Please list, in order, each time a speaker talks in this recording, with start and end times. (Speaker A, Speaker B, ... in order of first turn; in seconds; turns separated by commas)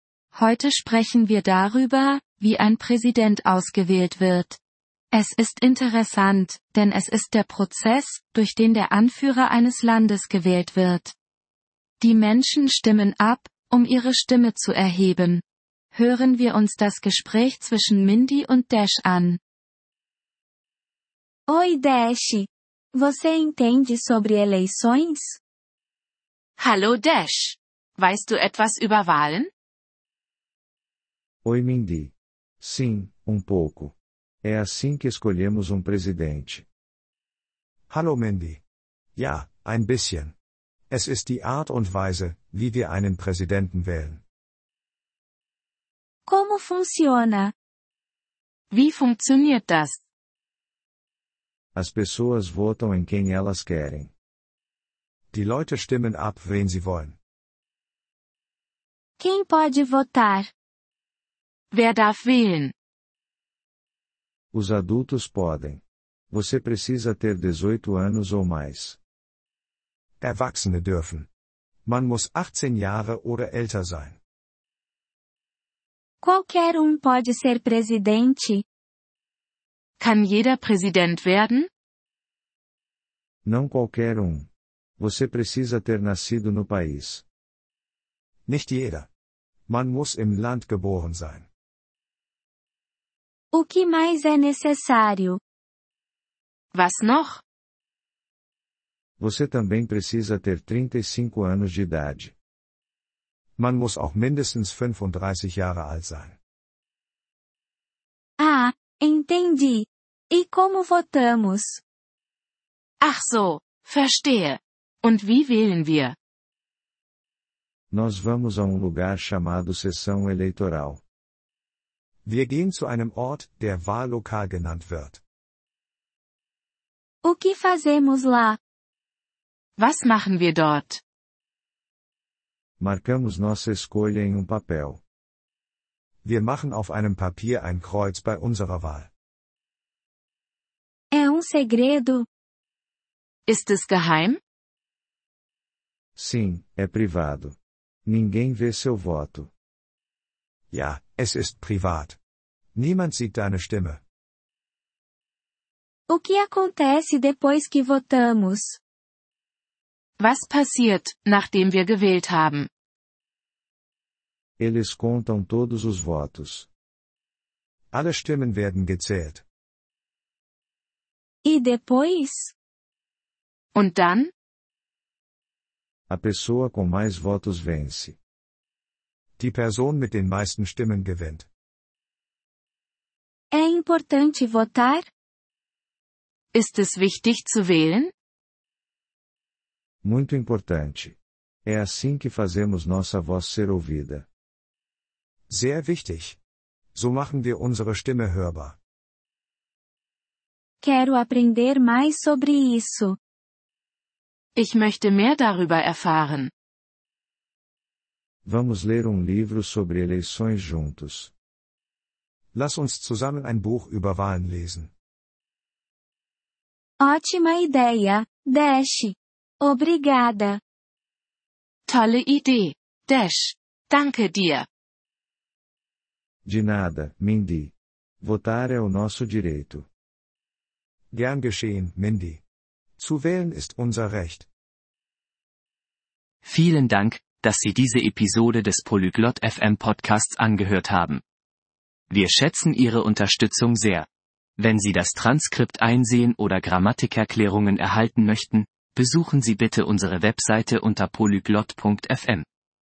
Speaker A: 0.3-4.6, Speaker A: 5.1-11.1, Speaker A: 12.0-15.4, Speaker A: 15.9-19.4, Speaker B: 21.5-25.4, Speaker C: 26.6-29.5, Speaker D: 31.4-36.6, Speaker E: 37.9-38.6, Speaker E: 39.2-40.3, Speaker E: 40.9-44.2, Speaker B: 46.3-47.5, Speaker C: 48.7-50.0, Speaker D: 51.8-54.1, Speaker E: 55.3-57.1, Speaker B: 59.2-60.5, Speaker C: 61.7-62.7, Speaker D: 64.5-69.0, Speaker E: 70.2-71.3, Speaker E: 71.9-74.2, Speaker B: 76.2-78.6, Speaker C: 80.0-81.7, Speaker D: 83.5-84.5, Speaker D: 85.0-87.2, Speaker E: 88.5-89.1, Speaker E: 89.7-91.5, Speaker B: 93.5-95.4, Speaker C: 96.7-97.4, Speaker D: 99.2-102.3, Speaker E: 103.6-106.3, Speaker B: 108.4-111.8, Speaker C: 113.0-116.2, Speaker D: 117.9-121.0, Speaker E: 122.3-125.2, Speaker B: 127.2-128.6, Speaker C: 129.8-131.0, Speaker D: 132.8-135.0, Speaker E: 136.2-139.1, Speaker B: 141.1-142.3, Speaker C: 143.5-144.4, Speaker D: 146.2-147.6, Speaker D: 148.1-149.5, Speaker E: 150.7-152.2, Speaker E: 152.8-154.0, Speaker B: 156.1-158.8, Speaker C: 160.2-162.7, Speaker D: 164.6-166.7, Speaker E: 167.9-169.4, Speaker B: 171.4-172.5, Speaker C: 173.8-174.3, Speaker D: 176.1-178.2, Speaker E: 179.4-181.4, Speaker B: 183.5-185.1, Speaker C: 186.5-188.1, Speaker D: 190.0-194.3, Speaker E: 195.5-196.4, Speaker E: 197.0-198.8, Speaker B: 200.8-203.2, Speaker C: 204.6-206.5, Speaker D: 208.5-211.3, Speaker E: 212.6-214.9, Speaker B: 217.0-220.6, Speaker C: 221.9-224.7, Speaker D: 226.5-229.9, Speaker E: 231.1-232.4, Speaker E: 233.0-234.5, Speaker F: 236.4-241.2, Speaker F: 242.1-244.1, Speaker F: 244.6-252.4